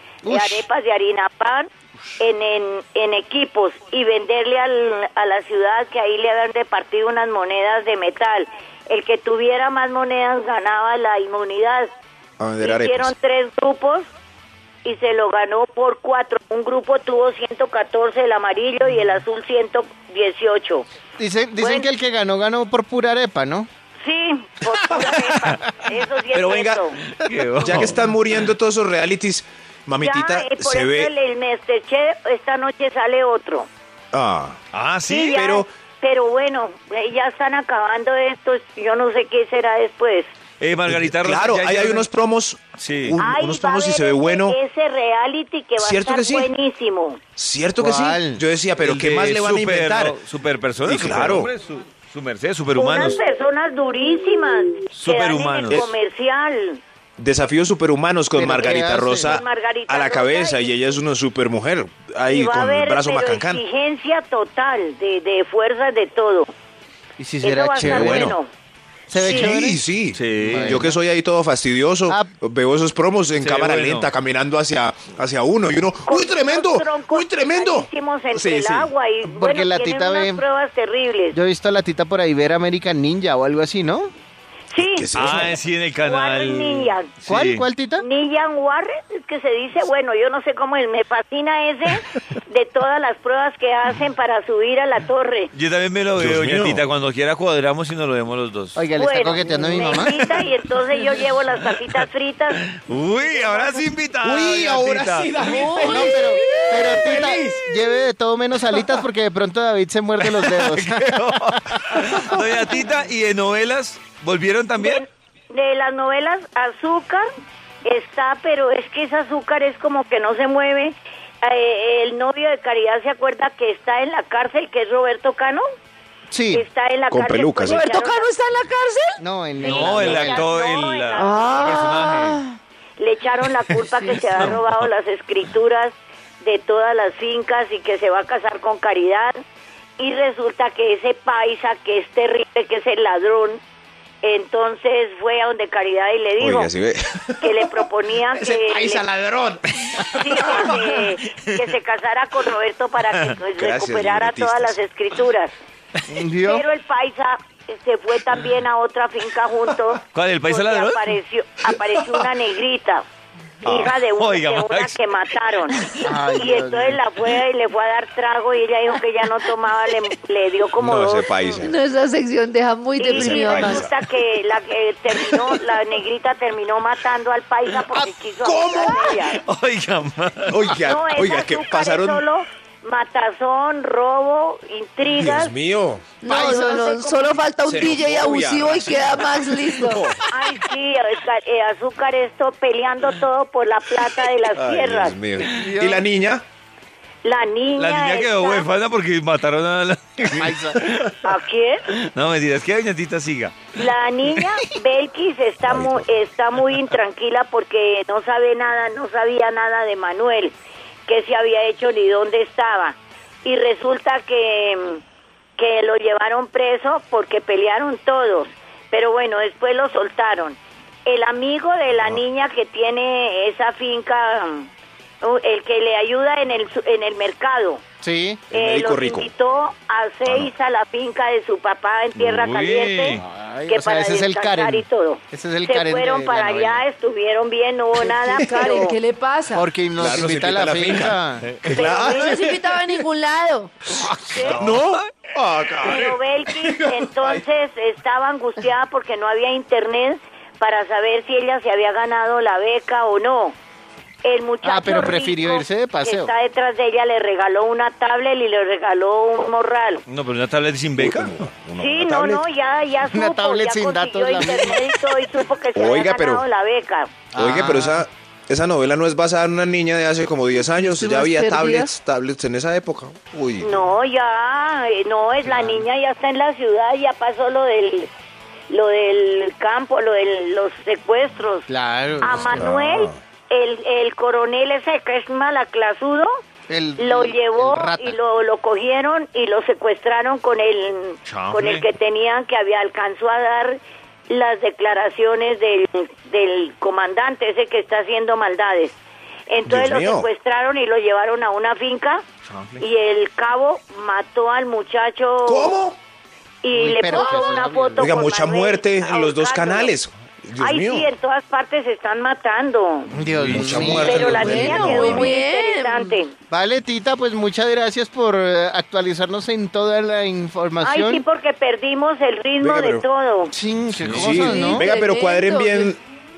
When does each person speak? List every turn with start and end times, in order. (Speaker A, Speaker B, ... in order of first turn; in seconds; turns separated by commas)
Speaker A: 0.2-0.6, Speaker B: 0.2-11.9, Speaker C: 12.4-13.1, Speaker B: 12.6-14.1, Speaker B: 14.8-20.9, Speaker A: 21.2-23.7, Speaker B: 21.6-21.9, Speaker B: 24.0-27.0, Speaker D: 25.0-25.6, Speaker C: 26.3-26.9, Speaker D: 27.1-28.1, Speaker C: 27.6-31.1, Speaker B: 30.0-33.7, Speaker C: 34.1-34.6, Speaker D: 34.7-35.4, Speaker B: 35.1-40.3, Speaker C: 35.1-35.7, Speaker D: 40.6-42.1, Speaker C: 40.9-44.6, Speaker D: 42.8-43.2, Speaker B: 43.2-47.2, Speaker C: 45.8-46.5, Speaker C: 47.4-50.2, Speaker A: 47.8-48.4, Speaker D: 48.8-53.2, Speaker C: 50.8-51.5, Speaker B: 52.8-56.8, Speaker D: 54.9-55.9, Speaker C: 57.2-63.6, Speaker A: 58.3-59.4, Speaker B: 58.6-60.7, Speaker B: 62.3-66.5, Speaker A: 67.2-68.4, Speaker B: 67.4-68.5, Speaker C: 67.8-68.4, Speaker A: 69.1-69.8, Speaker C: 69.2-78.9, Speaker B: 69.2-69.6, Speaker D: 70.1-70.9, Speaker A: 70.4-70.9, Speaker D: 73.4-74.1, Speaker B: 76.0-81.3, Speaker A: 79.2-80.4, Speaker A: 81.3-84.1, Speaker B: 84.7-85.1, Speaker C: 84.8-85.6, Speaker D: 85.1-87.7, Speaker B: 86.0-87.1, Speaker A: 87.3-88.0, Speaker B: 88.0-95.5, Speaker D: 95.5-98.8, Speaker C: 96.2-96.8, Speaker A: 98.7-100.3, Speaker B: 99.0-102.6, Speaker D: 99.9-102.0, Speaker D: 102.7-105.6, Speaker C: 104.2-106.2, Speaker E: 105.4-107.2, Speaker A: 105.4-112.2, Speaker D: 106.1-107.4, Speaker C: 107.0-107.6, Speaker D: 110.2-115.0, Speaker B: 114.8-117.3, Speaker B: 117.8-125.6, Speaker A: 126.3-126.6, Speaker B: 126.5-128.3, Speaker C: 127.1-127.9, Speaker E: 127.6-129.2, Speaker A: 129.2-130.5, Speaker D: 129.6-132.4, Speaker B: 129.6-132.2, Speaker E: 131.2-132.6, Speaker B: 133.0-139.4, Speaker D: 133.7-134.8, Speaker B: 140.0-143.6, Speaker B: 144.2-146.7, Speaker C: 146.4-150.7, Speaker B: 147.4-149.1, Speaker D: 149.9-150.9, Speaker B: 150.0-155.5, Speaker C: 153.6-154.8, Speaker A: 156.1-156.7, Speaker B: 156.4-163.0, Speaker D: 160.1-161.1, Speaker B: 163.6-165.8, Speaker C: 163.6-163.9, Speaker D: 163.7-165.0, Speaker A: 166.0-167.0, Speaker B: 166.3-171.6, Speaker C: 170.8-171.8, Speaker E: 171.6-173.9, Speaker B: 173.0-179.4, Speaker C: 173.1-173.9, Speaker C: 178.4-179.2, Speaker D: 179.2-180.7, Speaker C: 180.5-182.2, Speaker B: 180.8-185.5, Speaker C: 185.0-186.2, Speaker E: 186.2-190.0, Speaker A: 186.3-187.2, Speaker B: 186.3-186.7, Speaker C: 187.6-190.2, Speaker B: 190.3-195.2, Speaker C: 194.5-196.4, Speaker A: 195.4-196.0, Speaker B: 197.2-198.7, Speaker D: 197.8-201.3, Speaker A: 200.4-200.8, Speaker B: 201.2-201.8, Speaker D: 201.9-203.6, Speaker B: 203.7-210.5, Speaker C: 205.6-206.1, Speaker B: 211.1-215.0, Speaker B: 215.6-224.7, Speaker B: 225.2-227.8, Speaker A: 228.0-228.4, Speaker C: 228.5-229.3, Speaker B: 228.5-239.0, Speaker C: 230.2-230.5, Speaker D: 232.2-233.2, Speaker A: 233.2-236.8, Speaker E: 238.4-239.7, Speaker A: 239.5-241.5, Speaker C: 240.0-243.0, Speaker B: 241.7-242.5, Speaker E: 241.8-243.7, Speaker B: 244.2-244.8, Speaker D: 244.4-245.1, Speaker C: 244.4-247.4, Speaker B: 245.8-253.6, Speaker B: 254.2-260.0, Speaker A: 254.6-256.3, Speaker D: 260.1-261.5, Speaker C: 261.0-262.4, Speaker B: 261.8-267.1, Speaker A: 263.0-264.9, Speaker C: 265.7-266.4, Speaker A: 267.3-268.1, Speaker C: 267.3-273.9, Speaker E: 270.6-271.9, Speaker B: 273.6-278.1, Speaker A: 275.4-275.8, Speaker B: 278.7-281.7, Speaker A: 281.7-282.6, Speaker B: 282.2-286.3, Speaker C: 282.5-283.1, Speaker A: 286.7-288.1, Speaker B: 287.0-298.9, Speaker D: 291.2-291.9, Speaker B: 299.5-302.2, Speaker C: 299.6-300.3, Speaker D: 302.4-302.8, Speaker B: 302.8-305.7, Speaker C: 305.4-306.0, Speaker B: 306.6-309.9, Speaker A: 306.7-308.0, Speaker E: 307.1-307.4, Speaker C: 308.0-311.1, Speaker B: 310.6-313.1, Speaker A: 313.1-314.7, Speaker C: 313.2-315.3, Speaker B: 313.9-316.3, Speaker E: 313.9-316.1, Speaker A: 316.5-321.2, Speaker B: 320.8-323.5, Speaker C: 322.6-323.0, Speaker A: 323.5-324.9, Speaker D: 323.9-324.4, Speaker C: 324.1-326.0, Speaker E: 324.3-325.9